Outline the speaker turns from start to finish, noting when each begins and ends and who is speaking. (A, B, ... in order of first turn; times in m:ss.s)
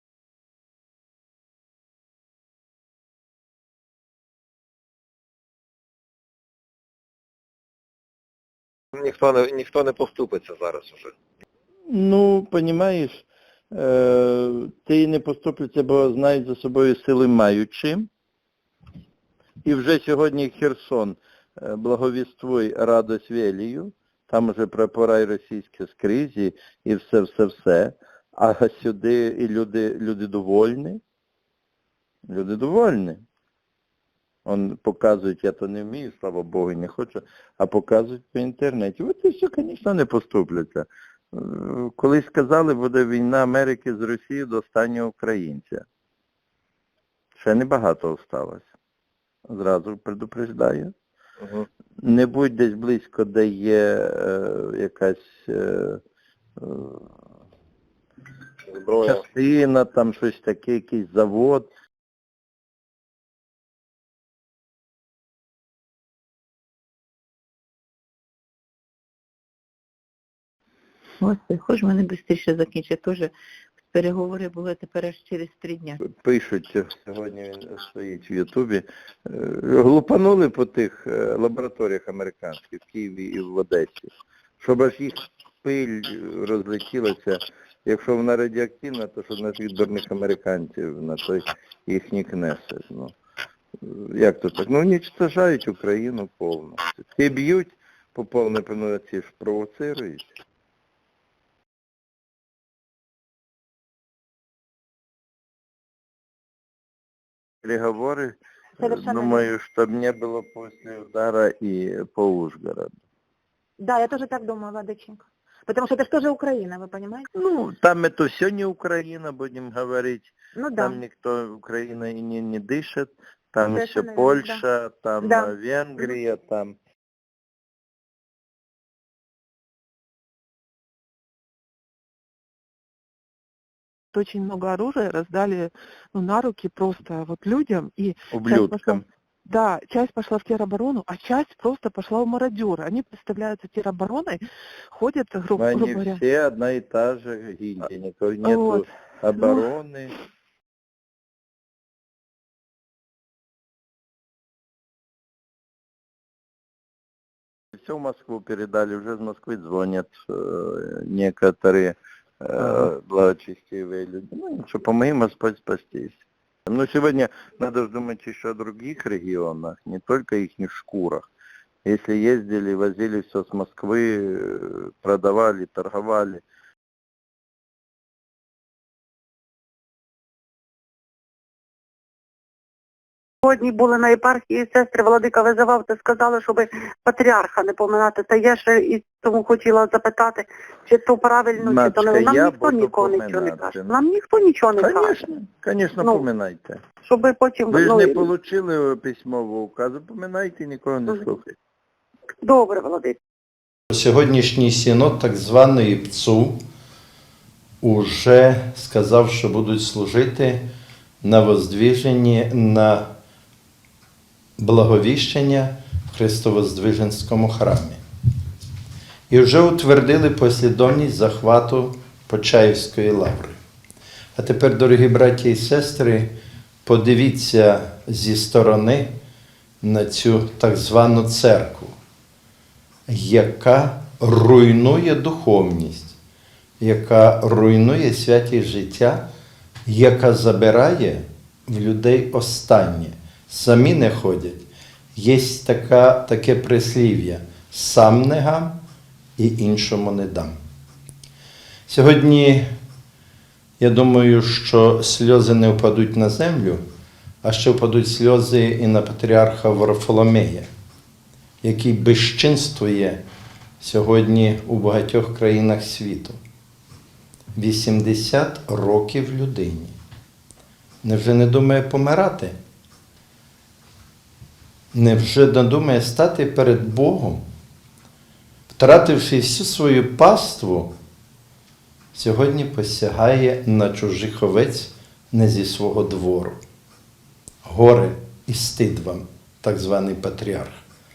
0:09.0-0:11.1 A
0:11.9-0:18.1 B
0:19.6-0:31.0 B
0:32.3-0:33.2 B
0:34.5-0:45.8 B
0:47.4-0:48.7 B
0:49.5-0:50.9 B
0:51.4-0:51.7 A
0:52.0-0:56.0 B
0:56.6-0:57.1 B
0:58.7-0:59.2 A
0:59.0-1:01.7 B
1:11.2-1:13.3 C
1:13.9-1:16.0 C
1:16.0-1:33.1 B
1:33.8-1:40.3 B
1:47.6-1:52.9 B
1:48.9-1:49.3 D
1:53.8-1:57.2 D
1:57.4-2:06.8 B
2:03.8-2:04.5 D
2:14.1-2:24.4 E
2:18.3-2:19.0 B
2:24.9-2:26.2 E
2:25.6-2:30.1 B
2:28.4-2:28.8 E
2:29.4-2:29.7 E
2:37.8-2:51.3 B
2:51.9-2:56.4 B
3:03.4-3:15.3 F
3:11.6-3:14.0 B
3:14.8-3:16.8 B
3:16.0-3:16.3 F
3:17.0-3:18.3 F
3:17.7-3:21.5 B
3:22.4-3:23.2 F
3:23.9-3:26.6 G
3:27.8-3:30.6 G
3:31.2-3:33.0 G
3:34.6-3:38.0 G
3:39.3-3:43.6 G
3:44.4-3:46.3 G
3:46.8-3:49.1 G
3:49.8-3:52.0 G
3:53.1-3:56.2 G
3:56.8-3:59.2 G
3:59.9-4:08.8 G
4:09.4-4:10.6 G
4:11.9-4:12.6 G
4:13.8-4:16.8 G
4:17.4-4:20.7 G
4:21.6-4:23.2 G
4:23.8-4:26.4 G
4:27.6-4:30.0 G
4:31.0-4:32.6 G
4:34.9-4:37.4 G
4:38.7-4:40.9 G
4:42.1-4:46.6 G
4:47.6-4:50.8 G